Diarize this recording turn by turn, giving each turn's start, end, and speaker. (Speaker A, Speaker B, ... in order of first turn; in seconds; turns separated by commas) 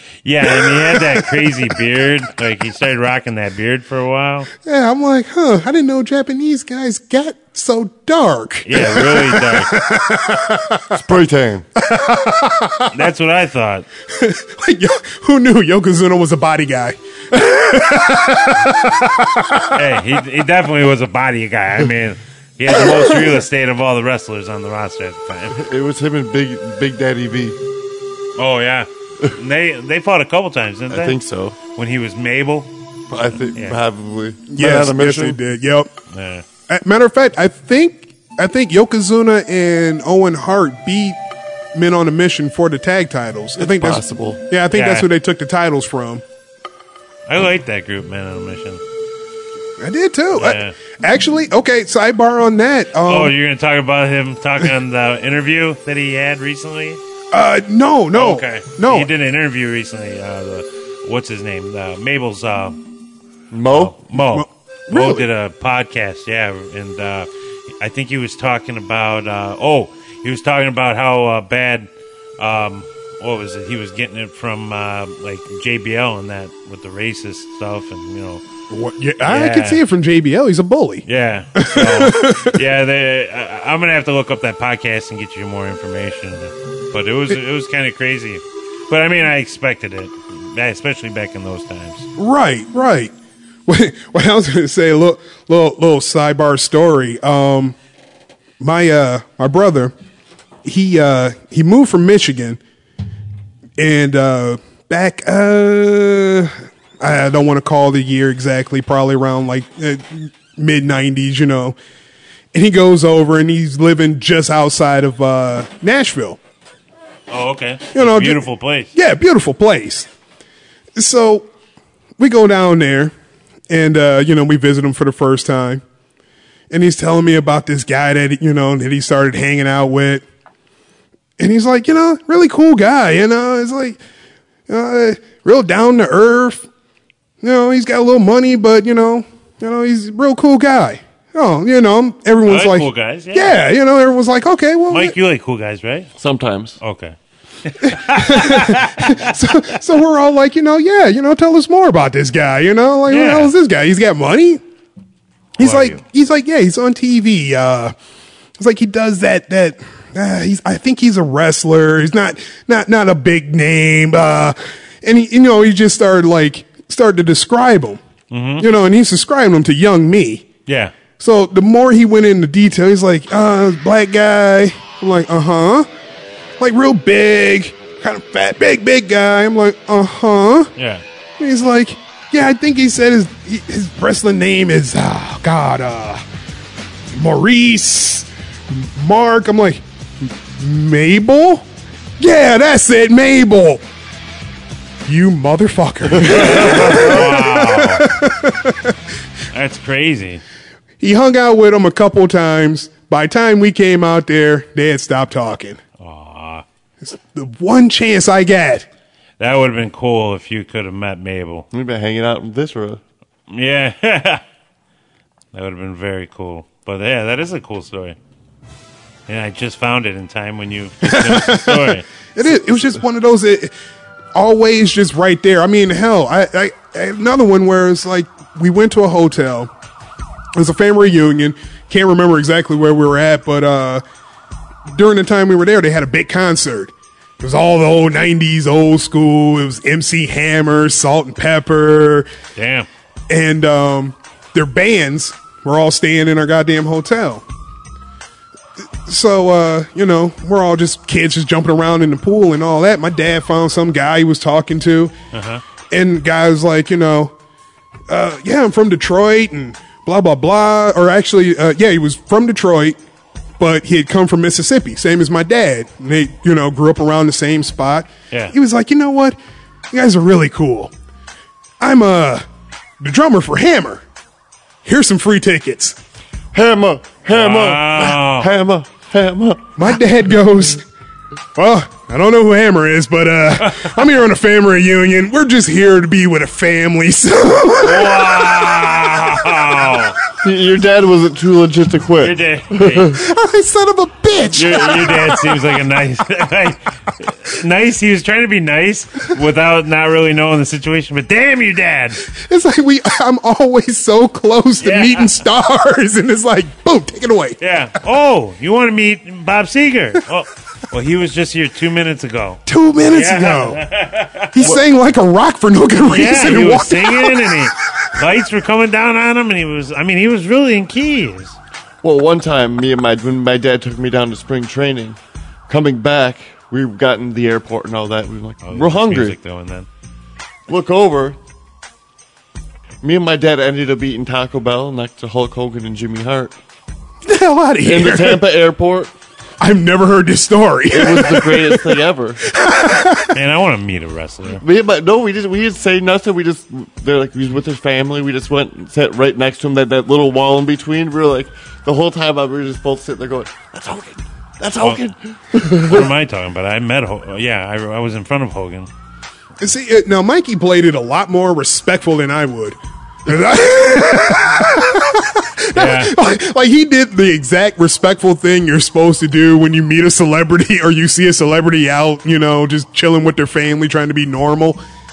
Speaker A: 0.2-4.5, Speaker B: 0.4-1.3, Speaker B: 4.6-11.0, Speaker A: 8.7-9.8, Speaker C: 10.9-11.7, Speaker B: 11.8-12.9, Speaker A: 12.9-13.9, Speaker B: 14.1-19.7, Speaker A: 19.7-25.6, Speaker B: 22.7-23.4, Speaker C: 25.5-27.6, Speaker A: 28.4-31.2, Speaker C: 30.9-31.6, Speaker A: 31.8-32.7, Speaker C: 33.1-35.4, Speaker B: 34.5-35.9, Speaker A: 36.1-36.5, Speaker B: 36.7-41.2, Speaker B: 41.7-46.2, Speaker C: 43.6-44.4, Speaker A: 44.7-45.1, Speaker A: 47.3-48.8, Speaker B: 49.8-53.4, Speaker A: 50.3-50.8, Speaker A: 53.1-57.0, Speaker B: 57.3-59.1, Speaker A: 58.1-62.8, Speaker C: 63.5-64.0, Speaker A: 63.7-67.3, Speaker B: 64.1-65.3, Speaker A: 67.8-78.4, Speaker B: 78.7-82.6, Speaker A: 79.2-79.8, Speaker A: 81.1-92.1, Speaker B: 92.2-93.1, Speaker B: 93.7-97.8, Speaker B: 98.6-99.9, Speaker B: 100.6-102.6, Speaker B: 103.8-111.8, Speaker B: 112.5-116.4, Speaker A: 117.3-118.9, Speaker B: 117.9-120.1, Speaker B: 121.0-121.5, Speaker B: 122.2-123.1, Speaker B: 123.7-125.8, Speaker B: 126.7-130.2, Speaker B: 131.4-134.0, Speaker B: 134.7-136.7, Speaker B: 137.4-145.2, Speaker A: 142.5-143.6, Speaker A: 144.9-146.1, Speaker C: 146.2-146.8, Speaker A: 146.8-149.3, Speaker B: 147.8-154.6, Speaker A: 153.1-153.5, Speaker B: 155.6-157.9, Speaker A: 155.6-156.0, Speaker B: 158.6-168.0, Speaker A: 168.3-168.7, Speaker B: 168.6-170.5, Speaker A: 170.7-170.9, Speaker B: 171.2-175.9, Speaker B: 176.6-180.7, Speaker A: 180.8-181.0, Speaker B: 181.4-186.2, Speaker B: 187.1-191.7, Speaker B: 192.2-193.8, Speaker B: 195.1-199.0, Speaker A: 196.2-198.1, Speaker A: 199.5-200.4, Speaker B: 201.0-205.8, Speaker A: 206.0-206.7, Speaker B: 207.0-208.9, Speaker A: 209.4-211.7, Speaker C: 211.7-213.0, Speaker A: 213.5-214.4, Speaker A: 215.5-218.2, Speaker A: 219.3-222.1, Speaker B: 221.0-223.7, Speaker B: 224.3-229.7, Speaker B: 230.6-234.0, Speaker B: 234.9-242.3, Speaker A: 242.6-242.9, Speaker B: 243.3-247.4, Speaker B: 249.1-255.1, Speaker A: 255.3-255.6, Speaker B: 255.9-257.3, Speaker B: 258.1-263.0, Speaker B: 263.6-269.4, Speaker B: 269.9-270.9, Speaker B: 271.8-272.4, Speaker B: 273.0-274.0, Speaker B: 274.8-276.0, Speaker C: 276.5-279.8, Speaker A: 277.3-278.5, Speaker B: 279.8-280.8, Speaker B: 281.6-288.8, Speaker A: 287.8-290.2, Speaker C: 290.4-293.2, Speaker A: 292.2-293.1, Speaker B: 293.1-295.6, Speaker A: 294.5-302.2, Speaker B: 302.3-307.6, Speaker A: 304.8-305.3, Speaker A: 307.6-314.7, Speaker B: 312.7-313.8, Speaker B: 314.5-317.6, Speaker A: 316.1-321.6, Speaker C: 322.0-325.2, Speaker C: 325.7-329.4, Speaker A: 328.6-329.9, Speaker C: 330.7-331.4, Speaker C: 333.0-336.6, Speaker B: 337.2-338.4, Speaker C: 337.8-339.1, Speaker B: 339.6-343.4, Speaker C: 340.9-342.4, Speaker A: 343.3-344.6, Speaker C: 344.6-356.1, Speaker A: 355.6-358.9, Speaker B: 359.6-374.8, Speaker A: 365.7-366.1